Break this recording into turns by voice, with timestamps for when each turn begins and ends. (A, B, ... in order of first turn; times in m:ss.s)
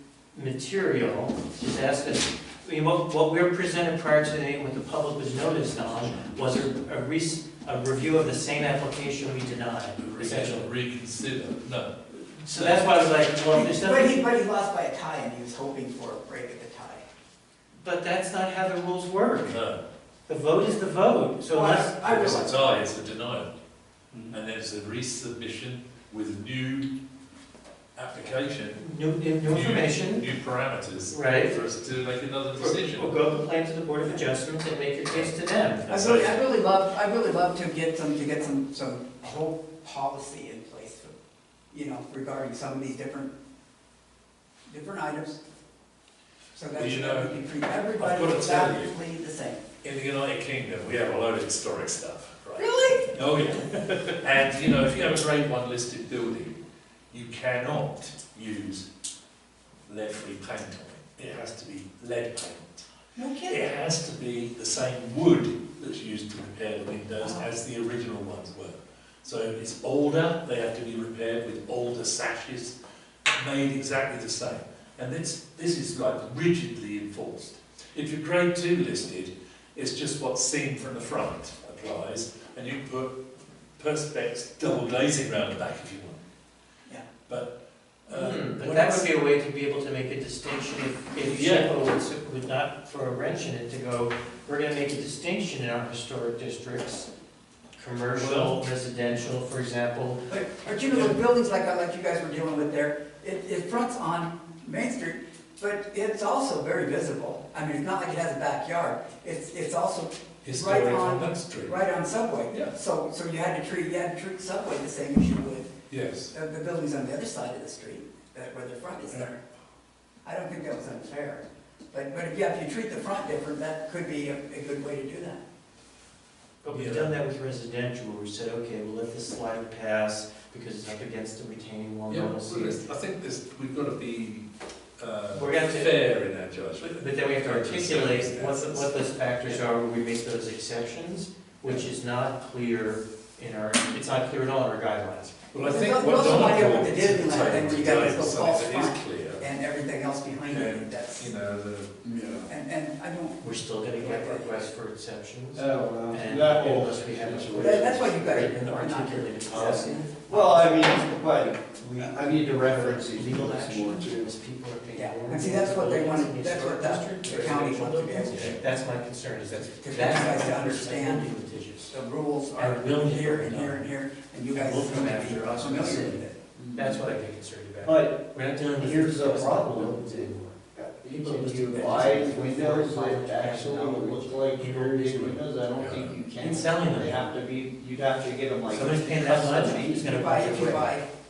0:00.3-0:10.7 A
0:10.0-0:12.0 B
0:12.1-0:14.2 A
0:12.5-0:13.0 B
0:13.5-0:17.0 C
0:17.8-0:19.6 A
0:19.4-0:19.8 B
0:20.3-0:22.0 A
0:21.5-0:22.6 C
0:22.0-0:23.5 B
0:24.3-0:26.9 B
0:28.0-0:28.8 B
0:28.8-0:30.2 A
0:29.4-0:33.1 B
0:31.1-0:31.6 A
0:32.6-0:35.9 A
0:35.9-0:36.4 B
0:35.9-0:41.1 C
0:41.7-0:43.3 C
0:44.7-0:45.4 C
0:46.5-0:49.6 C
0:46.7-0:47.3 B
0:48.0-0:49.0 B
0:49.8-0:56.6 B
0:52.6-0:53.2 C
0:57.1-0:58.9 B
0:59.9-1:02.9 B
1:03.2-1:03.6 C
1:03.5-1:12.7 B
1:07.2-1:07.5 C
1:13.3-1:23.2 B
1:23.8-1:26.2 B
1:27.3-1:27.5 B
1:28.0-1:29.1 B
1:28.1-1:37.1 A
1:31.2-1:31.7 B
1:37.8-1:40.2 A
1:38.2-1:38.6 B
1:40.3-1:55.7 C
1:50.4-1:51.8 B
1:52.5-1:52.7 B
1:55.9-1:56.3 B
1:56.3-1:59.4 C
2:00.2-2:05.4 C
2:06.6-2:12.8 A
2:06.7-2:07.1 B
2:12.1-2:14.5 B
2:15.0-2:18.9 B
2:15.3-2:16.0 A
2:16.8-2:25.4 A
2:25.5-2:29.4 B
2:25.6-2:31.3 C
2:30.5-2:31.9 B
2:32.0-2:32.5 D
2:32.4-2:33.4 C
2:33.4-2:40.8 A
2:34.0-2:34.7 C
2:35.5-2:38.1 D
2:37.6-2:40.1 C
2:39.5-2:44.3 D
2:42.0-2:51.9 A
2:44.9-2:48.6 C
2:49.5-2:51.3 C
2:51.9-2:56.4 C
2:52.6-2:53.9 A
2:54.5-3:00.6 A
2:56.6-2:57.0 D
2:57.8-2:58.2 D
2:58.8-3:10.8 D
3:01.1-3:05.4 A
3:05.8-3:06.1 B
3:06.4-3:07.3 A
3:08.7-3:10.9 A
3:10.1-3:11.1 C